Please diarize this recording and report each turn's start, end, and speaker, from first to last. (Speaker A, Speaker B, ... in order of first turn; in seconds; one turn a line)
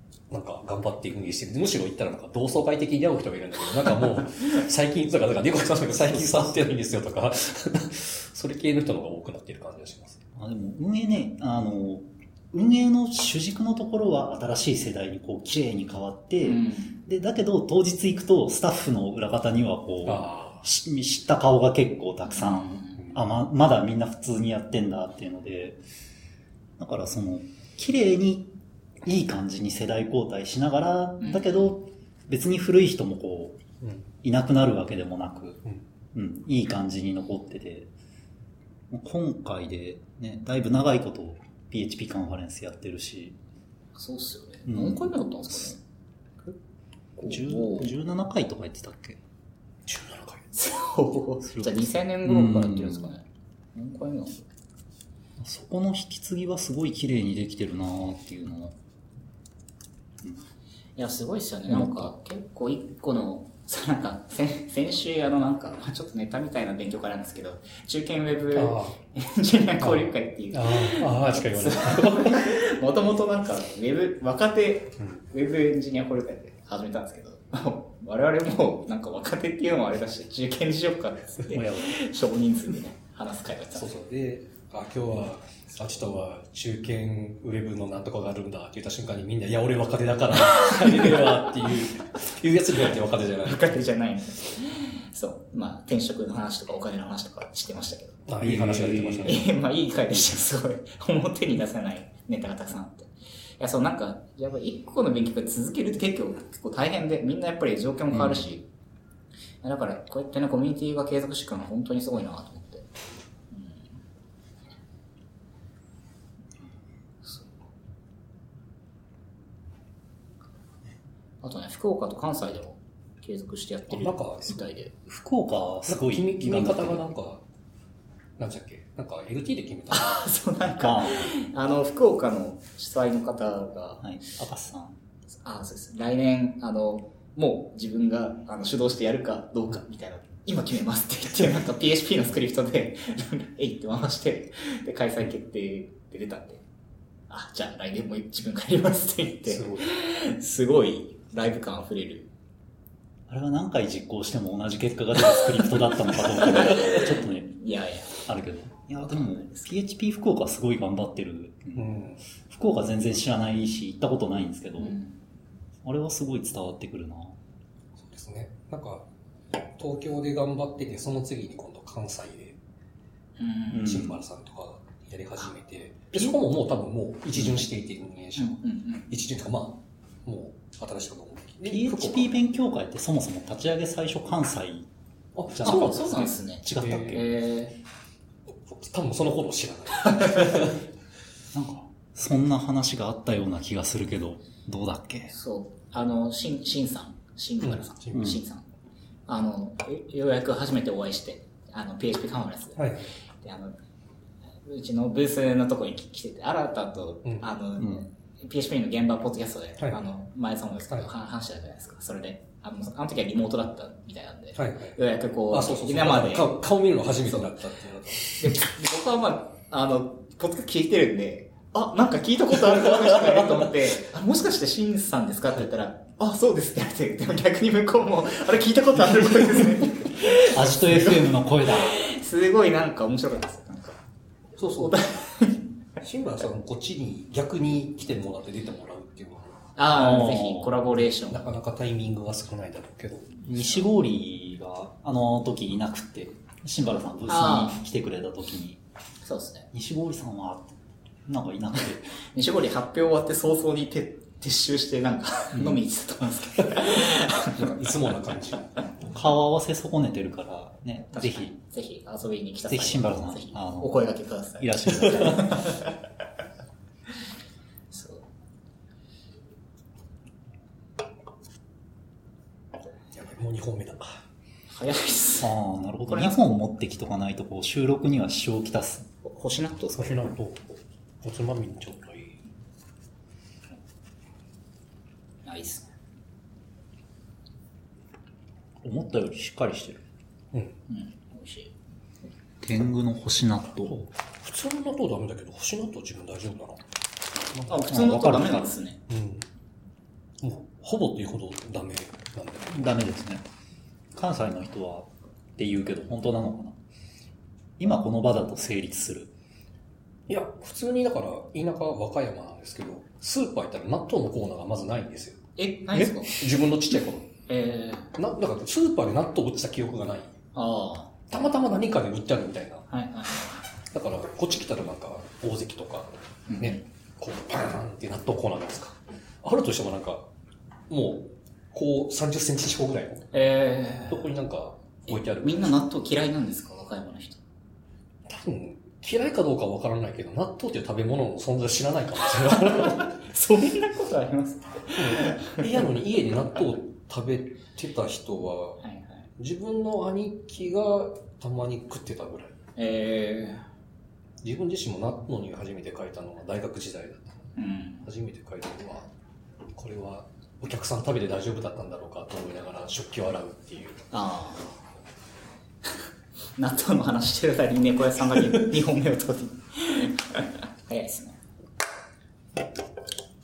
Speaker A: 0.3-10.2
Speaker B: 6.1-6.5
Speaker B: 10.4-25.8
Speaker C: 16.4-17.0
Speaker A: 20.1-20.6
Speaker C: 22.4-23.0
Speaker B: 26.8-28.5
Speaker B: 29.0-33.6
Speaker C: 31.2-31.5
Speaker B: 34.2-35.6
Speaker B: 36.1-37.9
Speaker B: 38.9-43.4
Speaker C: 44.0-45.8
Speaker B: 44.7-45.8
Speaker C: 47.2-47.9
Speaker B: 47.3-49.2
Speaker A: 49.9-50.5
Speaker C: 50.5-54.4
Speaker B: 51.4-53.1
Speaker B: 55.4-58.8
Speaker C: 61.0-83.9
Speaker B: 61.7-62.1
Speaker A: 68.5-69.0
Speaker A: 69.8-72.5
Speaker B: 81.5-82.0
Speaker A: 83.7-93.8
Speaker C: 90.5-91.4
Speaker C: 93.4-98.2
Speaker A: 98.3-99.5
Speaker B: 98.4-99.4
Speaker C: 99.2-108.7
Speaker B: 108.1-108.4
Speaker C: 109.6-112.9
Speaker C: 113.5-113.9
Speaker C: 117.2-117.5
Speaker C: 121.4-124.9
Speaker A: 123.9-124.6
Speaker B: 125.1-127.0
Speaker A: 125.9-127.4
Speaker A: 128.4-130.3
Speaker C: 129.9-134.1
Speaker B: 130.8-131.3
Speaker B: 134.0-135.0
Speaker C: 135.4-146.6
Speaker C: 147.3-152.3
Speaker A: 149.5-149.9
Speaker B: 153.3-157.6
Speaker C: 156.4-158.2
Speaker B: 158.3-161.9
Speaker C: 159.1-159.7
Speaker A: 161.8-162.2
Speaker B: 162.5-165.0
Speaker C: 164.8-165.2
Speaker B: 165.8-167.4
Speaker A: 168.0-169.1
Speaker A: 169.8-172.6
Speaker C: 173.4-174.0
Speaker A: 173.7-182.3
Speaker B: 173.7-174.2
Speaker B: 177.3-177.7
Speaker C: 178.4-179.1
Speaker B: 181.6-184.9
Speaker A: 185.3-187.3
Speaker B: 185.5-187.3
Speaker C: 185.6-187.8
Speaker A: 188.7-190.8
Speaker B: 191.5-195.3
Speaker C: 195.3-198.6
Speaker A: 197.6-198.4
Speaker B: 198.1-198.4
Speaker C: 199.3-202.9
Speaker A: 202.8-203.1
Speaker C: 203.4-203.8
Speaker C: 204.7-216.5
Speaker B: 207.8-208.1
Speaker A: 214.6-215.0
Speaker A: 215.5-218.7
Speaker C: 218.4-234.0
Speaker B: 230.3-232.1
Speaker A: 234.6-235.0
Speaker C: 234.6-235.6
Speaker A: 236.0-239.6
Speaker C: 239.8-241.4
Speaker B: 239.9-240.8
Speaker A: 241.3-243.9
Speaker B: 243.5-248.8
Speaker C: 247.3-247.8
Speaker C: 249.2-249.7
Speaker B: 249.7-252.1
Speaker C: 252.3-257.6
Speaker B: 255.5-255.8
Speaker A: 256.9-258.7
Speaker B: 259.1-261.5
Speaker C: 261.1-265.9
Speaker B: 262.7-265.7
Speaker A: 265.1-265.4
Speaker C: 267.9-268.2
Speaker A: 273.1-274.2
Speaker C: 274.7-275.5
Speaker B: 275.4-279.1
Speaker C: 276.1-276.5
Speaker C: 279.2-280.2
Speaker A: 280.0-282.4
Speaker C: 285.4-285.9
Speaker B: 288.8-290.0
Speaker C: 290.9-291.7
Speaker B: 292.6-294.0
Speaker A: 293.9-296.8
Speaker C: 297.7-299.0
Speaker B: 297.9-298.7
Speaker A: 299.1-299.5
Speaker A: 300.4-303.0
Speaker B: 302.7-303.4
Speaker B: 304.1-306.8
Speaker B: 307.8-309.3
Speaker A: 310.3-317.3
Speaker C: 315.6-316.4
Speaker C: 317.5-318.1
Speaker A: 318.1-320.4
Speaker C: 320.6-321.1
Speaker A: 321.3-322.9
Speaker C: 322.9-323.6
Speaker A: 323.9-330.3
Speaker C: 326.5-326.8
Speaker A: 330.9-333.3
Speaker C: 333.3-334.3
Speaker A: 334.1-335.8
Speaker C: 335.1-337.4
Speaker A: 338.3-343.1
Speaker C: 342.7-345.9
Speaker A: 345.0-348.8
Speaker C: 348.8-349.2
Speaker A: 349.4-352.6
Speaker C: 352.8-353.7
Speaker A: 354.4-357.4
Speaker C: 357.6-358.1
Speaker A: 358.0-359.1
Speaker A: 359.8-364.1
Speaker C: 364.1-364.7
Speaker C: 366.6-371.4